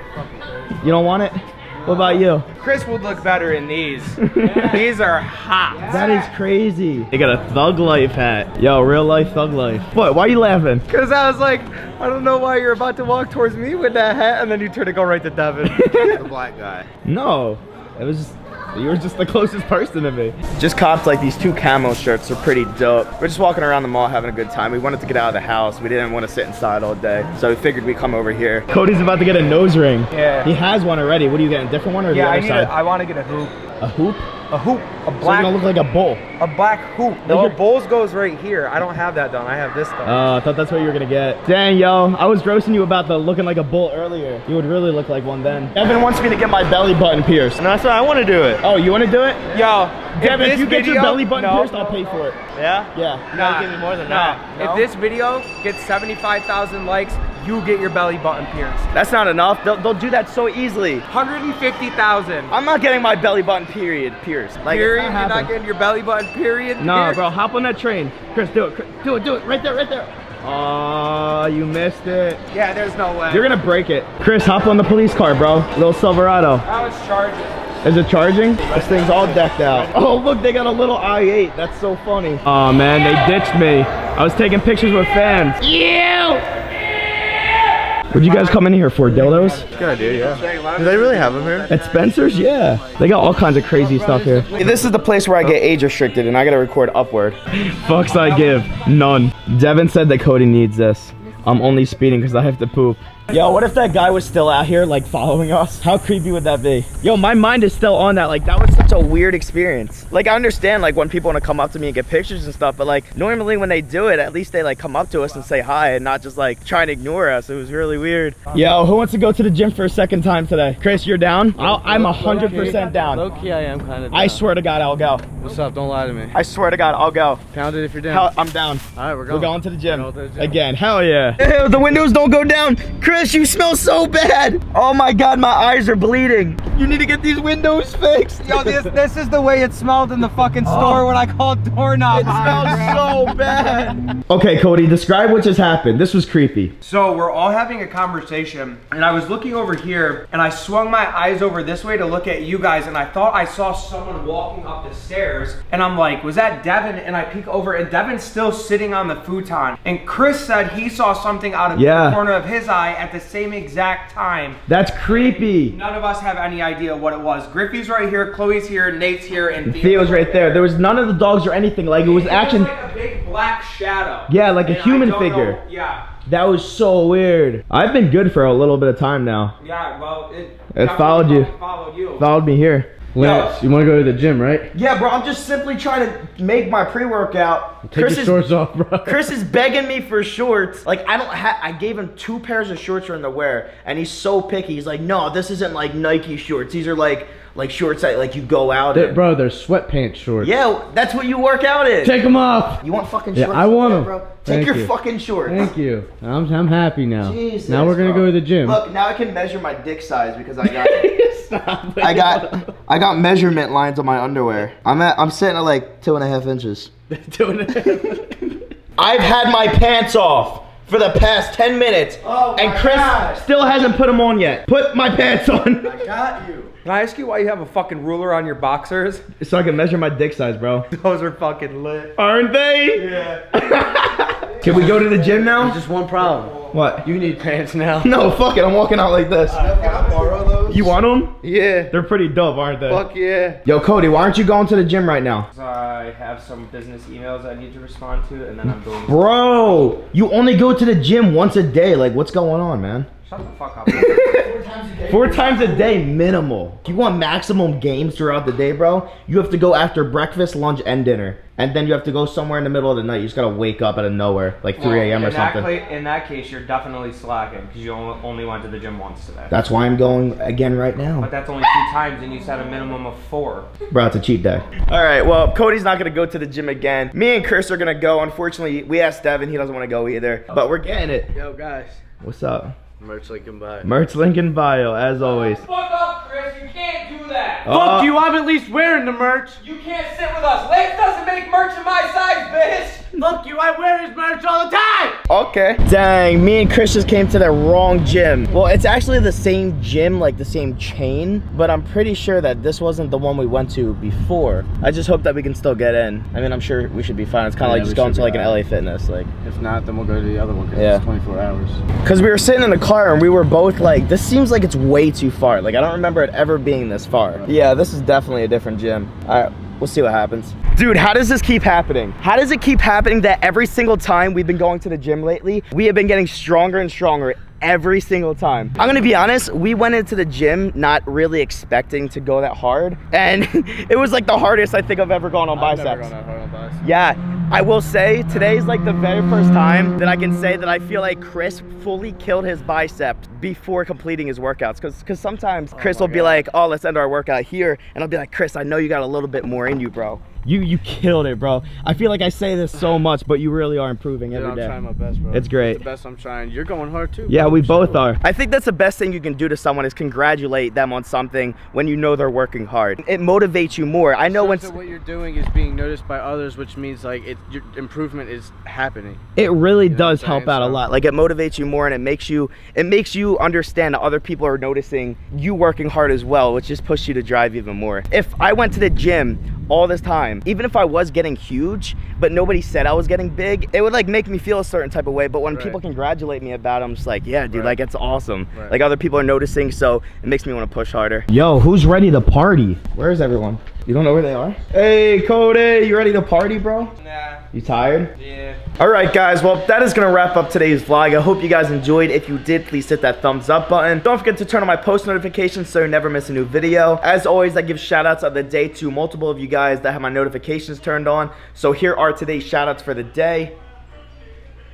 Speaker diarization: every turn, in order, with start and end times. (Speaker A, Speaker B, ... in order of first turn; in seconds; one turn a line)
Speaker A: 0.1-0.8
Speaker B: 0.8-2.5
Speaker C: 1.8-6.2
Speaker B: 4.2-4.8
Speaker A: 4.4-4.8
Speaker A: 5.7-6.1
Speaker B: 5.9-10.9
Speaker C: 10.9-16.2
Speaker B: 15.6-16.2
Speaker D: 16.2-16.9
Speaker B: 17.1-32.7
Speaker C: 30.1-30.5
Speaker C: 32.1-33.5
Speaker B: 33.8-34.3
Speaker C: 34.5-35.6
Speaker B: 35.2-36.2
Speaker C: 36.4-40.3
Speaker B: 37.2-37.6
Speaker B: 40.0-47.6
Speaker D: 47.6-48.6
Speaker B: 48.6-49.6
Speaker C: 49.5-52.2
Speaker B: 50.2-52.4
Speaker D: 52.6-54.4
Speaker B: 52.9-53.3
Speaker C: 53.3-58.9
Speaker B: 54.5-54.9
Speaker B: 58.9-61.0
Speaker C: 61.1-62.5
Speaker B: 62.5-65.5
Speaker C: 64.7-67.2
Speaker B: 66.8-72.4
Speaker C: 72.5-73.5
Speaker B: 73.3-76.7
Speaker C: 76.7-77.6
Speaker B: 77.8-86.4
Speaker B: 88.1-89.7
Speaker C: 88.1-88.5
Speaker A: 89.2-91.7
Speaker D: 89.7-91.7
Speaker C: 89.8-91.8
Speaker B: 91.7-123.3
Speaker C: 93.8-94.8
Speaker A: 94.5-94.8
Speaker A: 121.6-124.4
Speaker C: 122.3-123.1
Speaker B: 124.1-125.3
Speaker A: 125.4-126.4
Speaker B: 126.3-127.5
Speaker A: 127.5-128.3
Speaker B: 128.1-138.7
Speaker A: 128.9-130.6
Speaker C: 138.4-143.3
Speaker B: 140.6-141.1
Speaker B: 142.1-146.7
Speaker C: 146.8-170.6
Speaker B: 161.7-162.2
Speaker B: 164.7-165.8
Speaker B: 169.7-172.7
Speaker C: 172.0-176.0
Speaker B: 174.3-175.6
Speaker B: 176.3-179.5
Speaker C: 179.6-182.2
Speaker B: 180.7-181.5
Speaker B: 182.2-182.9
Speaker A: 183.1-184.7
Speaker C: 183.2-183.6
Speaker B: 184.7-188.4
Speaker A: 187.8-189.3
Speaker B: 189.1-199.2
Speaker A: 198.9-200.6
Speaker B: 200.4-202.2
Speaker A: 202.0-202.8
Speaker B: 202.8-205.7
Speaker A: 203.3-204.9
Speaker A: 205.4-208.8
Speaker B: 207.2-211.1
Speaker A: 210.6-212.7
Speaker B: 212.0-217.1
Speaker A: 217.2-218.2
Speaker B: 217.7-218.5
Speaker B: 219.0-226.0
Speaker A: 222.7-223.0
Speaker D: 226.4-226.7
Speaker C: 226.8-229.2
Speaker B: 229.4-230.9
Speaker C: 230.9-232.2
Speaker B: 232.2-235.8
Speaker A: 235.6-238.2
Speaker C: 236.2-236.7
Speaker B: 236.7-237.1
Speaker B: 238.0-239.6
Speaker C: 239.5-240.4
Speaker D: 239.5-240.9
Speaker B: 240.7-241.4
Speaker A: 241.4-241.9
Speaker B: 241.9-243.1
Speaker A: 242.9-243.6
Speaker B: 243.6-245.5
Speaker C: 245.5-249.5
Speaker B: 248.7-253.1
Speaker C: 253.2-254.5
Speaker B: 253.9-254.5
Speaker A: 254.6-255.8
Speaker B: 255.1-265.7
Speaker C: 264.8-269.5
Speaker B: 269.5-271.3
Speaker C: 271.2-273.7
Speaker B: 273.9-281.4
Speaker A: 281.3-282.0
Speaker B: 282.2-282.8
Speaker A: 283.0-283.9
Speaker B: 283.8-285.6
Speaker C: 285.6-287.7
Speaker B: 287.6-288.1
Speaker A: 287.6-289.6
Speaker C: 289.6-293.1
Speaker A: 293.1-295.2
Speaker B: 295.3-309.3
Speaker A: 307.6-308.6
Speaker A: 309.4-311.8
Speaker B: 310.7-311.1
Speaker B: 312.0-336.1
Speaker A: 335.6-336.8
Speaker B: 336.8-354.7
Speaker A: 345.7-346.5
Speaker A: 354.3-358.1
Speaker B: 355.3-355.8
Speaker B: 357.3-364.8
Speaker A: 364.2-369.2
Speaker B: 369.4-396.9
Speaker A: 369.9-370.8
Speaker A: 385.5-385.8
Speaker A: 387.5-387.8
Speaker A: 388.5-388.8
Speaker C: 397.0-397.4
Speaker B: 397.5-398.1
Speaker C: 398.2-398.6
Speaker B: 398.8-413.6